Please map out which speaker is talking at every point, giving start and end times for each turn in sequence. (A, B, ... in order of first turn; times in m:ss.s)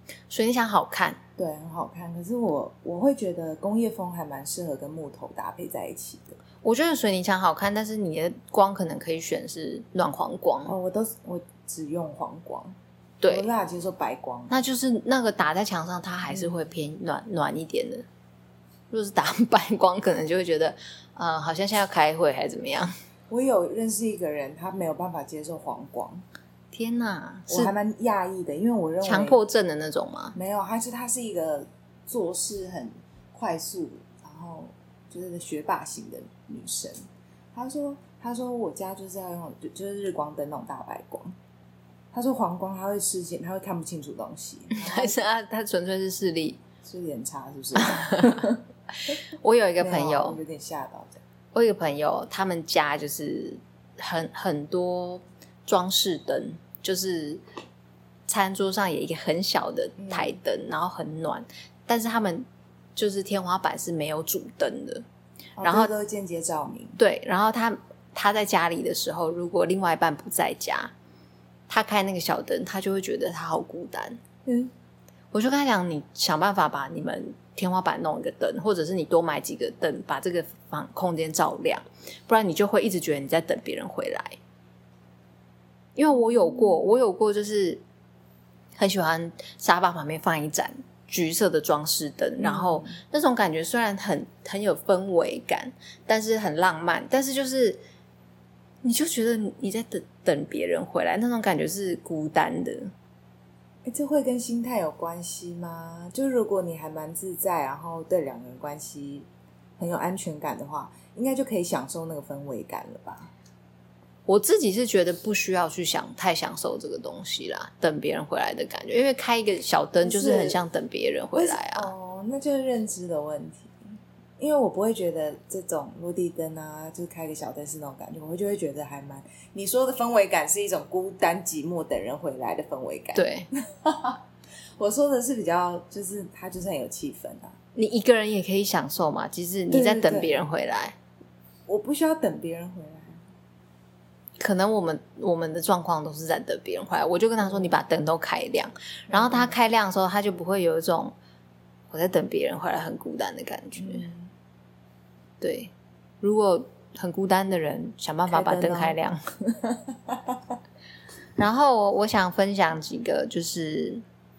0:00.3-0:01.2 A
0:01.4-0:06.4 B
0:06.6-0:10.7 A
0:10.7-0:12.8 B
0:13.2-0:13.5 A
0:13.3-0:14.6 B
0:14.5-0:18.1 A
0:16.3-0:16.6 B
0:18.9-0:22.9 A
0:23.3-0:26.2 B
0:26.7-0:27.7 A
0:27.5-0:29.4 B
0:29.0-0:30.4 A
0:30.4-0:41.4 B
0:42.1-0:45.2 B
0:44.7-0:46.6 A
0:46.8-0:49.2 B
0:47.8-0:48.5 A
0:49.1-0:50.4 A
0:49.8-0:51.2 B
0:51.5-0:57.4 A
0:58.3-1:05.0 A
1:00.0-1:00.4 B
1:05.6-1:07.0 B
1:05.6-1:05.9 A
1:07.0-1:10.9 A
1:11.7-1:14.2 A
1:14.4-1:14.7 B
1:15.3-1:24.4 A
1:26.0-1:27.8 A
1:26.1-1:26.8 B
1:28.8-1:37.8 A
1:32.4-1:33.0 B
1:38.8-1:42.9 A
1:43.8-1:49.3 B
1:49.8-1:53.3 B
1:54.3-2:01.9 A
2:00.0-2:00.6 B
2:01.3-2:03.8 B
2:04.4-2:14.2 B
2:13.2-2:13.5 A
2:14.8-2:17.6 B
2:17.8-2:21.0 A
2:19.7-2:20.4 B
2:21.7-2:23.2 B
2:24.4-2:31.2 A
2:27.4-2:27.8 B
2:29.1-2:29.6 B
2:31.9-2:34.1 A
2:33.8-2:34.3 B
2:35.4-2:39.2 A
2:38.3-2:40.4 B
2:41.4-2:44.0 A